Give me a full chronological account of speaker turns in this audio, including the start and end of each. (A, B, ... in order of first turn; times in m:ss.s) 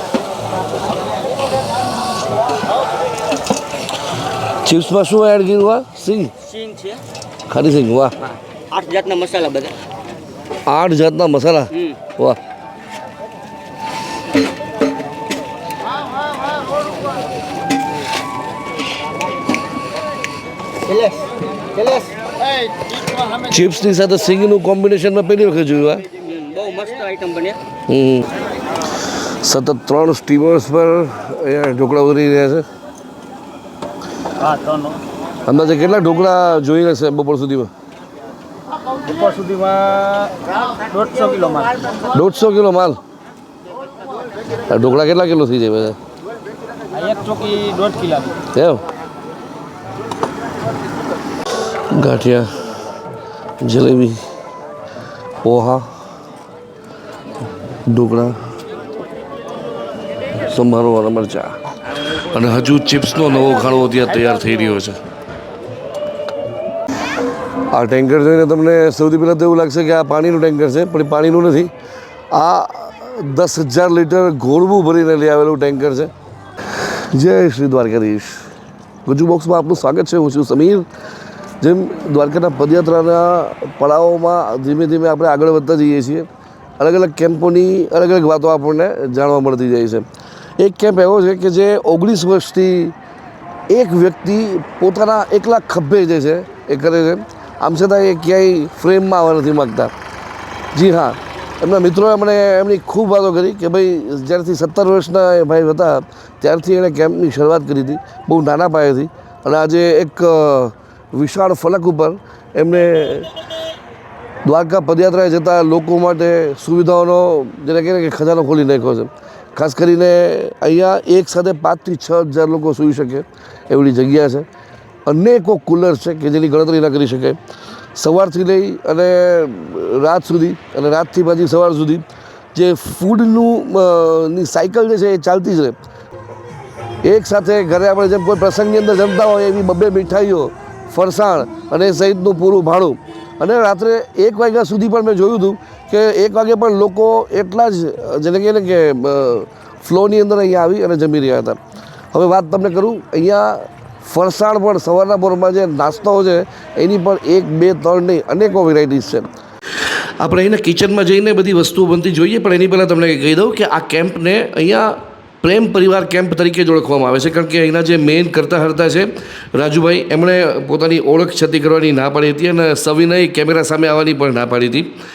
0:04.5-0:06.3 A
0:06.4-0:07.0 B
0:07.5-0:08.2 A
0:08.7-0:09.8 B
0:10.7-0:12.4 A
0:20.9-0:21.2 C
0:21.8-0:22.7 C
0:23.2-0:26.1 A
0:26.1-0:27.6 B
0:27.9-0:28.3 A
0:29.0-0:32.6 A
0:34.4-0:35.0 C
0:35.4-0:37.7 A
0:39.0-0:42.0 C
0:42.0-0:43.0 A
0:44.7-0:46.0 A
0:46.9-0:48.4 C
0:48.5-0:48.8 A
0:51.9-0:52.7 A
0:53.6-0:54.2 A
0:55.4-0:55.9 A
0:57.8-0:58.4 A
1:00.5-1:05.0 A
1:07.7-1:11.7 A
1:12.3-1:16.1 A
1:16.8-1:18.5 A
1:19.0-1:20.9 A
1:21.6-1:26.3 A
1:26.8-1:30.1 A
1:30.6-1:33.0 A
1:33.7-1:39.9 A
1:40.7-1:53.3 A
1:54.4-2:04.5 A
2:05.0-2:07.4 A
2:07.9-2:15.8 A
2:17.0-2:31.6 A
2:32.1-2:39.3 A
2:40.2-2:54.9 A